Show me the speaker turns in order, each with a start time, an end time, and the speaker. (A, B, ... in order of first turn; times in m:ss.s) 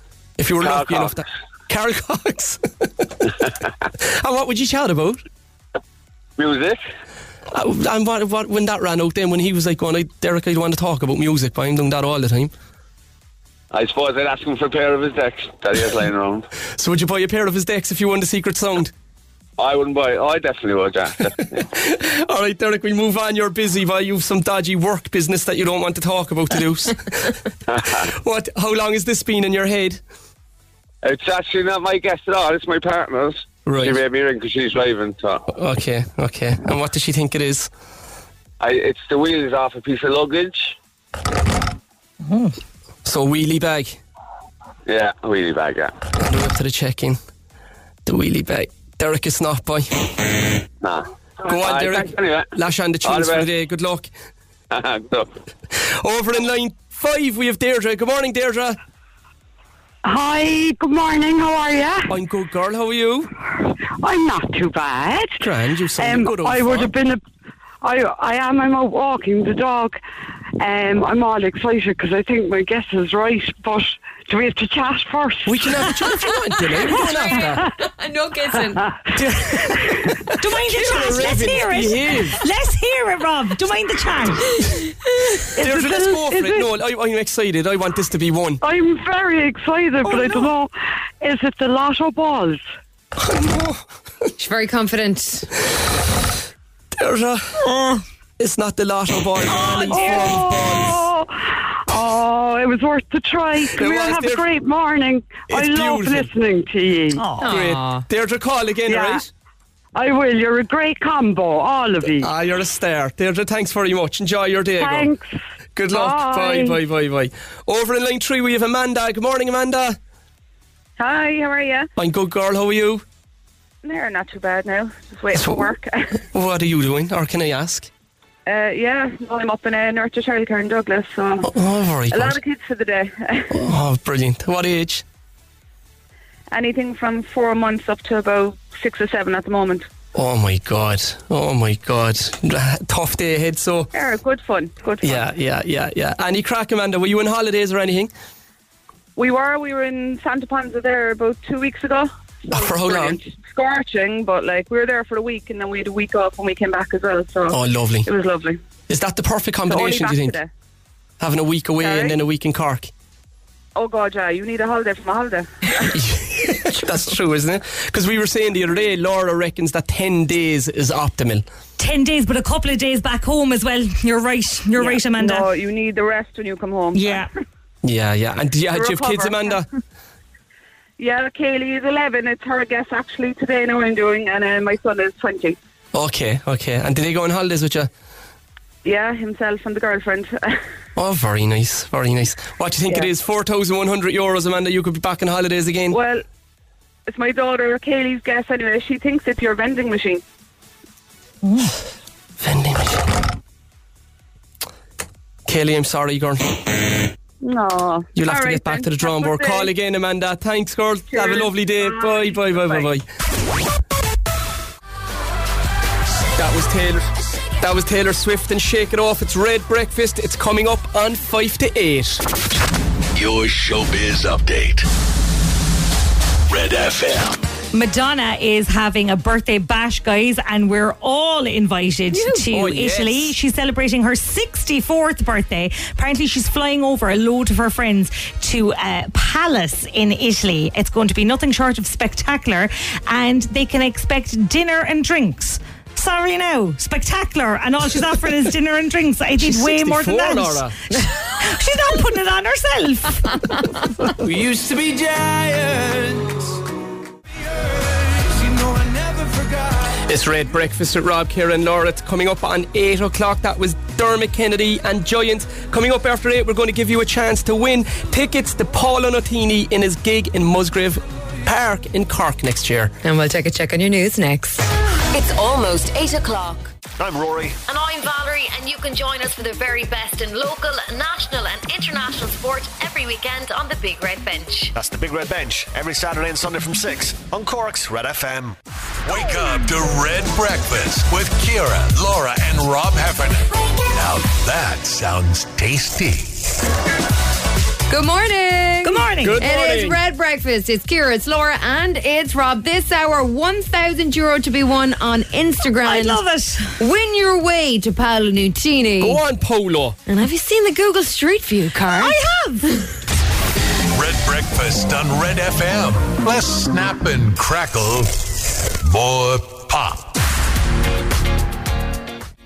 0:00.4-0:03.2 A
0:00.6-0:01.2 B
0:04.0-0:05.2 A
0:06.4-0:06.8 B
0:07.5-0:12.5 A
0:13.7-0:16.4 B
0:16.8-0:18.9 A
0:19.6-0:21.6 B
0:21.7-0:30.0 A
0:27.7-0:28.0 B
0:31.0-0:35.4 B
0:33.7-0:34.0 A
0:35.5-0:37.7 A
0:38.6-0:40.8 B
0:42.3-0:42.5 C
0:43.0-0:44.0 A
0:44.9-0:45.9 B
0:46.2-0:47.2 A
0:48.0-0:50.1 A
0:50.8-0:52.5 B
0:51.5-0:54.1 A
0:53.0-0:53.5 B
0:54.7-0:55.3 B
0:55.8-0:58.8 A
1:00.0-1:02.1 D
1:02.1-1:03.3 A
1:04.0-1:05.4 D
1:05.4-1:06.9 A
1:06.0-1:07.2 D
1:07.8-1:10.0 D
1:10.6-1:16.0 D
1:15.5-1:17.7 A
1:16.9-1:17.7 D
1:17.8-1:18.8 E
1:18.8-1:19.1 D
1:19.1-1:22.4 A
1:20.4-1:24.6 C
1:25.6-1:26.7 D
1:25.6-1:28.6 A
1:28.6-1:32.6 D
1:30.1-1:30.4 C
1:33.2-1:33.8 A
1:34.4-1:35.5 E
1:36.9-1:37.6 A
1:37.7-1:38.0 C
1:38.4-1:41.0 A
1:39.5-1:40.4 C
1:39.9-1:47.2 D
1:43.8-1:44.4 A
1:45.5-1:46.3 A
1:47.2-1:47.6 C
1:47.4-1:48.0 E
1:47.5-1:49.3 A
1:48.9-1:49.2 D
1:50.0-1:52.3 D
1:52.2-1:55.1 A
1:54.8-1:55.4 D
1:55.8-2:00.0 A
1:55.9-1:56.8 D
2:01.0-2:01.9 F
2:02.0-2:03.0 A
2:03.8-2:06.1 F
2:05.3-2:05.7 A
2:06.3-2:07.9 A
2:08.5-2:11.5 F
2:11.4-2:12.4 A
2:12.1-2:13.6 F
2:13.5-2:15.0 A
2:16.5-2:19.9 F
2:20.2-2:23.9 A
2:23.9-2:25.3 F
2:25.0-2:28.1 A
2:29.2-2:38.6 F
2:32.5-2:33.2 A
2:37.5-2:38.1 A
2:38.9-2:40.4 A
2:39.7-2:40.5 F
2:41.2-2:42.9 A
2:41.8-2:42.2 F
2:43.8-2:45.9 F
2:45.9-2:51.4 A
2:51.8-2:55.5 C
2:54.8-2:57.3 F
2:57.0-2:57.3 C
2:57.8-2:59.7 A
2:58.7-2:59.6 F
3:01.0-3:05.6 F
3:05.9-3:07.9 A
3:08.8-3:10.6 F
3:11.0-3:16.0 A
3:15.9-3:16.2 F
3:17.1-3:20.2 F
3:21.5-3:21.7 C
3:22.4-3:23.1 A
3:25.5-3:26.5 A
3:27.4-3:29.7 F
3:28.2-3:33.0 A
3:31.1-3:32.9 F
3:36.4-3:42.2 A
3:43.2-3:44.9 G
3:46.5-3:47.4 G
3:47.7-4:13.7 C
3:52.2-3:53.3 A
4:09.4-4:10.8 A
4:14.2-4:16.6 H
4:17.7-4:20.0 H
4:20.1-4:32.9 A
4:33.0-4:34.7 E
4:35.1-4:36.7 I
4:37.0-4:37.6 J
4:37.8-4:38.8 E
4:38.9-4:44.5 I
4:44.7-4:48.6 J
4:49.0-4:56.3 G
4:57.9-5:06.2 E
4:58.8-4:59.4 C
4:59.2-5:00.0 A
5:05.8-5:06.8 C
5:06.8-5:09.2 E
5:09.0-5:10.0 A
5:10.1-5:12.2 E
5:11.9-5:12.7 C
5:13.9-5:18.1 G
5:18.8-5:20.2 G